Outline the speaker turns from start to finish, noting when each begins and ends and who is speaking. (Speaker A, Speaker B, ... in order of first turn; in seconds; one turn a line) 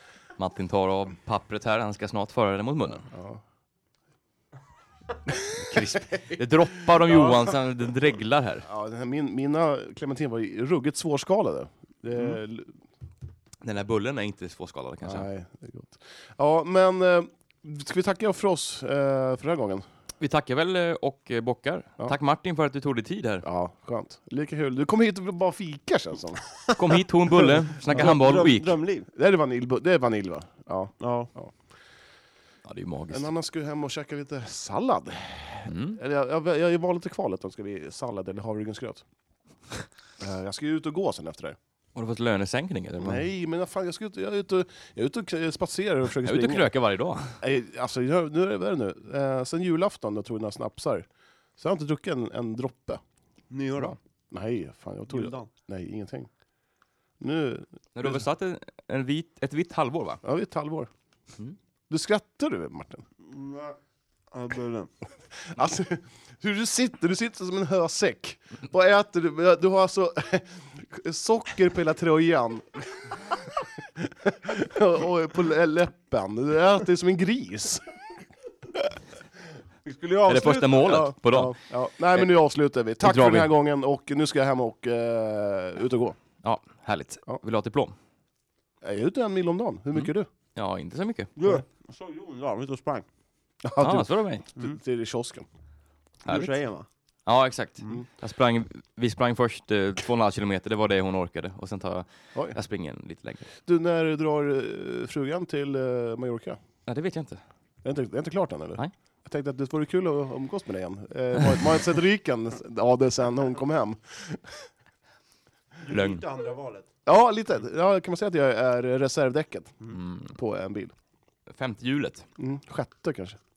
Speaker A: 0.4-3.0
Speaker B: 3.0-3.4
Speaker A: 5.6-8.7
Speaker B: 7.0-7.5
Speaker B: 8.6-12.8
Speaker A: 13.6-15.3
Speaker B: 15.0-19.9
Speaker A: 20.2-23.4
Speaker B: 23.4-26.4
Speaker A: 26.8-28.7
Speaker C: 27.3-29.1
Speaker B: 29.1-31.5
Speaker C: 31.0-31.3
Speaker A: 32.6-33.3
Speaker B: 33.1-39.0
Speaker A: 35.6-36.0
Speaker B: 40.2-41.6
Speaker A: 41.9-43.2
Speaker B: 43.0-46.7
Speaker A: 46.2-47.4
Speaker B: 47.4-51.0
Speaker B: 51.6-53.0
Speaker C: 53.5-54.0
Speaker B: 53.8-56.3
Speaker C: 55.1-55.5
Speaker B: 57.2-58.2
Speaker A: 57.9-60.2
Speaker B: 60.2-60.9
Speaker B: 61.9-63.0
Speaker C: 63.3-63.8
Speaker C: 64.3-64.9
Speaker B: 65.4-77.9
Speaker C: 79.8-81.1
Speaker A: 80.2-81.6
Speaker B: 80.8-86.2
Speaker A: 83.0-83.5
Speaker A: 86.4-87.9
Speaker B: 88.8-90.3
Speaker A: 89.9-91.3
Speaker C: 91.4-93.0
Speaker B: 93.6-95.5
Speaker A: 93.8-94.5
Speaker A: 96.2-96.6
Speaker C: 96.2-96.9
Speaker A: 97.2-103.5
Speaker B: 103.6-106.6
Speaker A: 106.9-107.4
Speaker B: 107.8-114.6
Speaker C: 115.8-116.9
Speaker A: 115.9-116.2
Speaker B: 117.0-120.9
Speaker A: 119.9-120.3
Speaker A: 121.5-122.3
Speaker B: 122.4-123.4